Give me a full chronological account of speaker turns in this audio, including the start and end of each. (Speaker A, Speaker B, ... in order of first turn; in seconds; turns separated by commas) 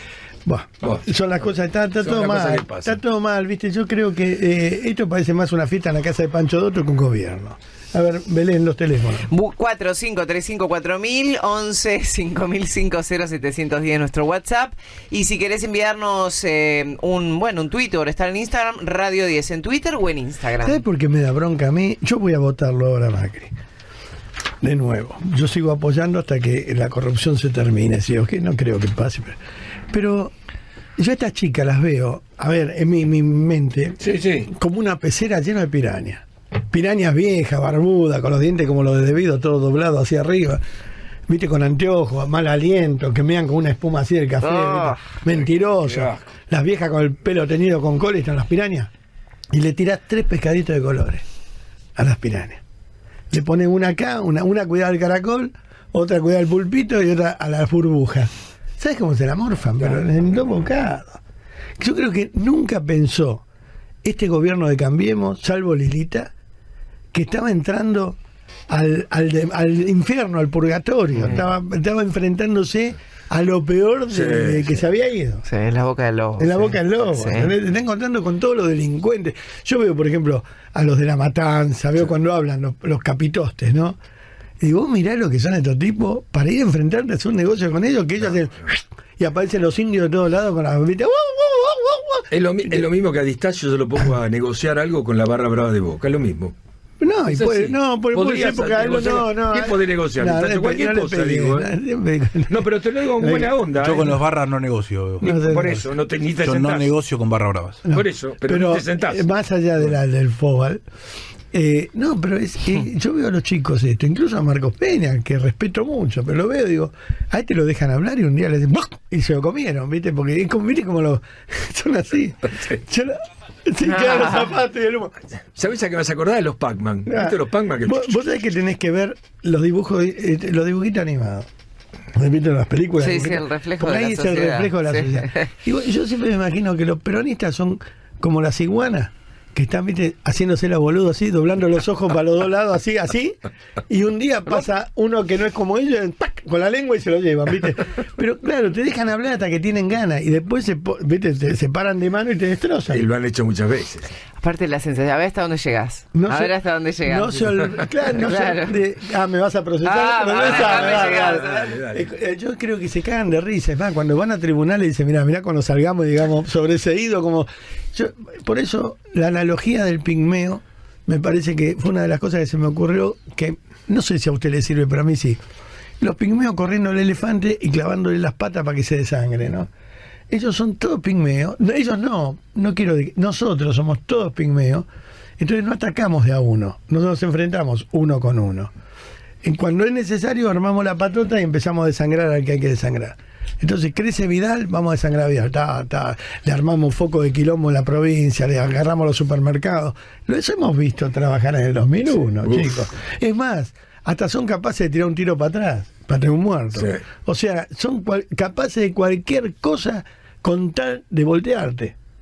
Speaker A: 0.5-9.3, Speaker B: 2.0-3.0, Speaker C: 9.3-20.8, Speaker A: 20.6-23.5, Speaker A: 24.6-29.4, Speaker A: 29.9-30.3, Speaker A: 31.0-40.6, Speaker B: 34.0-34.5, Speaker A: 41.3-48.9, Speaker C: 44.4-45.0, Speaker B: 45.3-46.3, Speaker A: 49.5-51.2, Speaker A: 52.0-52.6, Speaker A: 53.3-61.2, Speaker A: 61.8-63.4, Speaker A: 64.0-66.3, Speaker A: 67.1-68.2, Speaker A: 68.7-75.5, Speaker B: 74.1-74.8, Speaker C: 75.5-77.5, Speaker A: 76.4-84.0, Speaker A: 84.6-92.8, Speaker B: 92.3-96.5, Speaker A: 97.0-103.5, Speaker B: 97.3-101.7, Speaker B: 102.5-104.2, Speaker D: 103.8-105.3, Speaker A: 105.2-105.9, Speaker B: 105.2-106.9, Speaker D: 106.4-107.8, Speaker A: 107.9-110.8, Speaker B: 107.9-109.2, Speaker A: 111.5-125.1, Speaker C: 123.9-124.5, Speaker B: 125.6-128.1, Speaker A: 127.1-131.5, Speaker A: 132.1-143.4, Speaker C: 133.0-135.4, Speaker A: 143.9-153.1, Speaker B: 152.9-154.1, Speaker C: 154.4-158.8, Speaker A: 156.1-156.6, Speaker A: 157.1-175.4, Speaker C: 159.8-161.7, Speaker B: 160.4-162.1, Speaker A: 176.0-179.7, Speaker A: 180.3-184.9, Speaker A: 185.4-188.7, Speaker A: 189.4-211.9, Speaker B: 206.8-207.0